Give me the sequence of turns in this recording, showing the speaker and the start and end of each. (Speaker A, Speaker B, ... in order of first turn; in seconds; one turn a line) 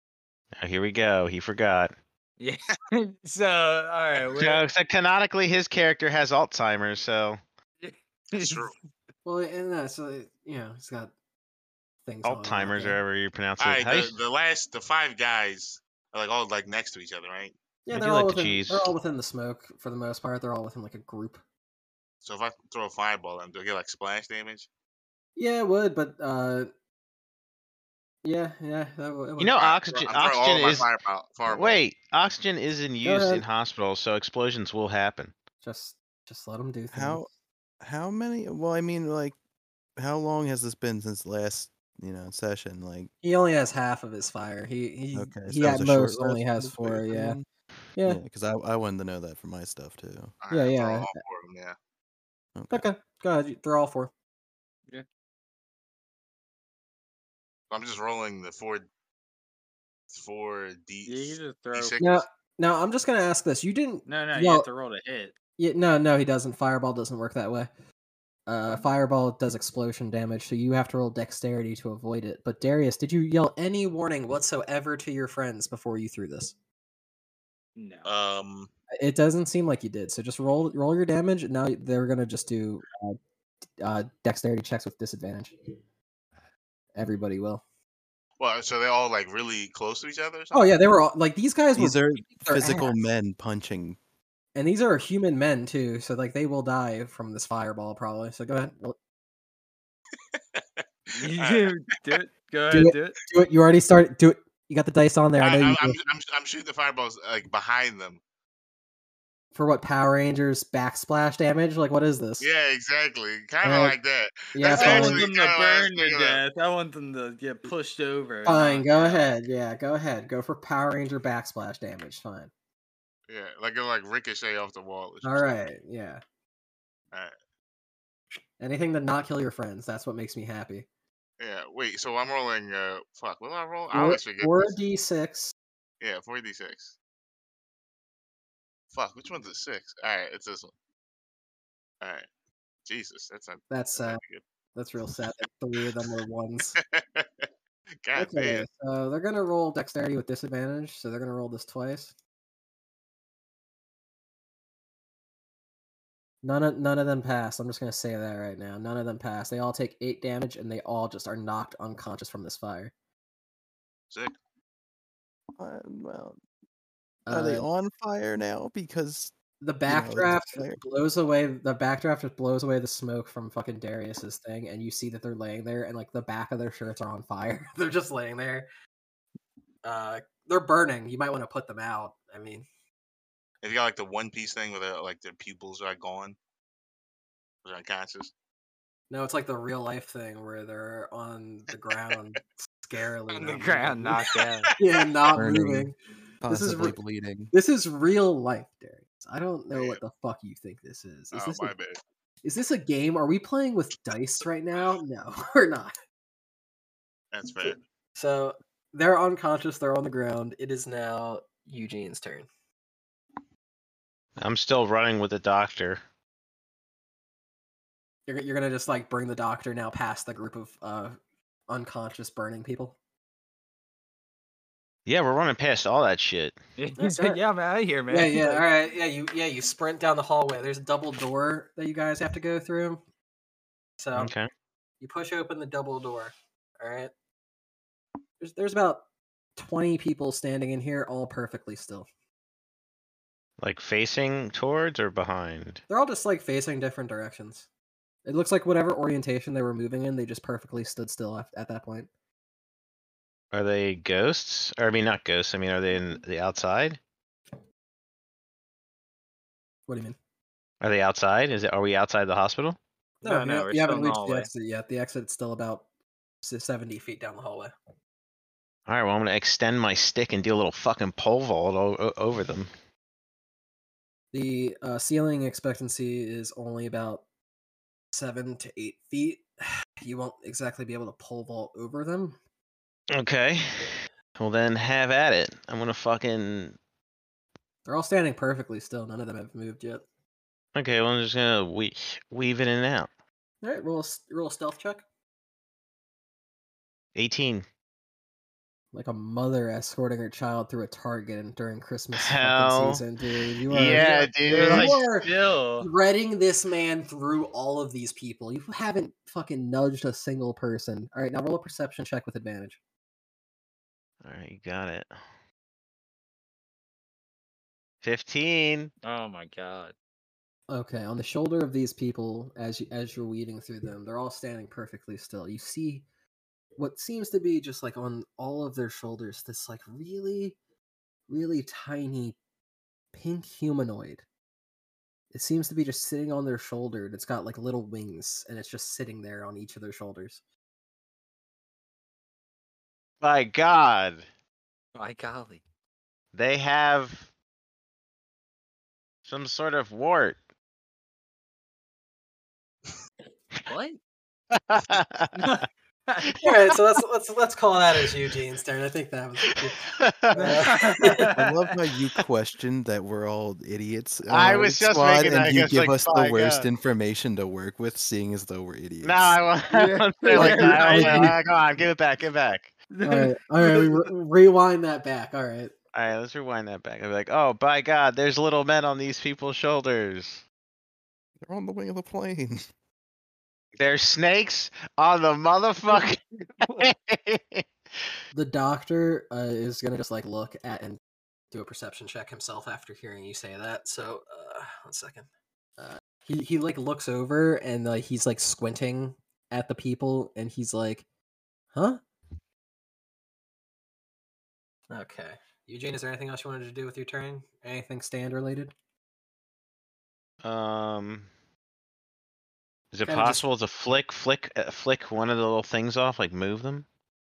Speaker A: 0.6-1.9
Speaker B: 2.4-4.6
Speaker A: 4.3-7.4
Speaker B: 7.8-8.7
Speaker C: 8.3-8.7
Speaker D: 9.2-11.1
Speaker D: 12.0-13.0
Speaker A: 12.2-14.2
Speaker C: 13.6-17.5
Speaker D: 17.9-21.4
Speaker A: 17.9-18.9
Speaker C: 22.2-24.7
Speaker D: 25.4-26.7
Speaker D: 28.2-29.6
Speaker A: 29.4-30.9
Speaker C: 29.6-31.8
Speaker A: 31.4-35.3
Speaker D: 33.0-33.4
Speaker D: 35.6-37.2
Speaker E: 36.9-37.3
Speaker E: 37.8-39.4
Speaker E: 40.0-43.1
Speaker D: 43.2-47.4
Speaker E: 45.1-47.4
Speaker E: 48.0-50.3
Speaker C: 50.4-51.8
Speaker D: 50.5-51.1
Speaker E: 52.5-52.9
Speaker D: 52.7-54.1
Speaker C: 57.7-58.9
Speaker C: 60.1-62.2
Speaker B: 61.0-62.0
Speaker D: 62.0-64.7
Speaker B: 64.1-65.3
Speaker D: 65.6-67.7
Speaker D: 68.5-76.5
Speaker B: 77.8-78.1
Speaker C: 78.0-78.7
Speaker D: 78.9-83.2
Speaker D: 83.8-85.7
Speaker D: 87.0-87.6
Speaker C: 88.4-90.7
Speaker D: 90.5-92.9
Speaker E: 91.8-94.0
Speaker D: 94.5-99.0
Speaker C: 100.3-100.8
Speaker B: 101.1-103.2
Speaker C: 101.3-101.7
Speaker D: 102.7-106.0
Speaker C: 105.4-108.2
Speaker D: 109.5-112.5
Speaker C: 112.4-116.4
Speaker D: 113.6-114.0
Speaker D: 114.5-115.2
Speaker B: 114.7-119.3
Speaker D: 118.4-122.5
Speaker C: 123.3-125.6
Speaker D: 125.2-126.2
Speaker D: 128.6-130.9
Speaker C: 131.4-134.7
Speaker D: 133.9-135.5
Speaker C: 136.0-136.9
Speaker C: 138.9-140.7
Speaker C: 142.0-142.3
Speaker C: 142.8-144.4
Speaker D: 143.7-144.2
Speaker D: 144.7-146.8
Speaker C: 146.7-147.4
Speaker C: 148.0-148.7
Speaker D: 148.2-152.1
Speaker D: 156.4-162.9
Speaker C: 164.1-164.3
Speaker E: 165.6-166.4
Speaker D: 167.3-167.7
Speaker E: 167.3-169.3
Speaker D: 169.6-178.7
Speaker E: 169.8-170.8
Speaker D: 179.8-182.7
Speaker C: 183.6-186.3
Speaker C: 187.6-188.3
Speaker D: 189.1-194.1
Speaker B: 193.3-194.7
Speaker C: 193.4-195.0
Speaker D: 194.8-195.9
Speaker E: 195.3-195.9
Speaker E: 196.4-197.5
Speaker D: 196.5-196.9
Speaker D: 197.5-201.7
Speaker C: 199.7-200.0
Speaker C: 201.3-202.0
Speaker D: 202.4-205.9
Speaker C: 207.3-207.8
Speaker D: 207.6-212.5
Speaker A: 214.4-216.0
Speaker D: 218.3-221.2
Speaker D: 221.7-223.0
Speaker A: 225.1-226.6
Speaker B: 226.8-228.6
Speaker D: 227.0-227.4
Speaker D: 228.1-233.0
Speaker D: 234.0-234.3
Speaker A: 234.1-234.5
Speaker D: 235.0-237.1
Speaker D: 238.4-239.0
Speaker D: 239.6-242.1
Speaker A: 243.6-245.8
Speaker D: 245.9-247.7
Speaker D: 248.2-252.1
Speaker A: 253.5-257.0
Speaker D: 259.9-260.2
Speaker A: 260.8-262.8
Speaker B: 263.2-264.5
Speaker D: 263.2-265.9
Speaker D: 266.4-267.7
Speaker A: 268.9-272.7
Speaker D: 274.3-277.2
Speaker D: 278.1-282.4
Speaker A: 283.1-286.8
Speaker D: 287.9-290.0
Speaker A: 290.7-293.1
Speaker D: 293.6-295.0
Speaker A: 297.1-297.6
Speaker D: 298.9-312.8
Speaker A: 302.1-303.0
Speaker A: 303.7-304.9
Speaker B: 304.4-305.9
Speaker A: 314.2-315.1
Speaker A: 318.0-318.9
Speaker B: 319.0-319.9
Speaker D: 320.7-326.0
Speaker D: 326.8-330.6
Speaker D: 331.3-332.4
Speaker D: 333.1-334.2
Speaker D: 335.3-340.4
Speaker A: 343.2-344.2
Speaker B: 344.9-345.6
Speaker A: 346.3-347.3
Speaker A: 349.2-350.4
Speaker B: 353.6-354.0
Speaker A: 354.5-355.4
Speaker B: 355.4-356.3
Speaker A: 356.3-356.6
Speaker D: 356.4-361.3
Speaker A: 359.6-360.7
Speaker B: 360.3-361.5
Speaker E: 361.2-369.4
Speaker A: 364.3-366.7
Speaker A: 369.0-372.7
Speaker B: 369.7-371.3
Speaker D: 370.4-371.4
Speaker B: 372.9-374.1
Speaker D: 373.0-375.7
Speaker A: 375.9-380.4
Speaker E: 381.4-382.7
Speaker A: 383.7-388.1
Speaker B: 385.9-386.9
Speaker D: 388.3-391.0
Speaker D: 391.5-401.0
Speaker D: 401.7-402.0
Speaker D: 404.9-408.7
Speaker A: 410.4-411.3
Speaker A: 412.9-416.9
Speaker D: 413.0-413.4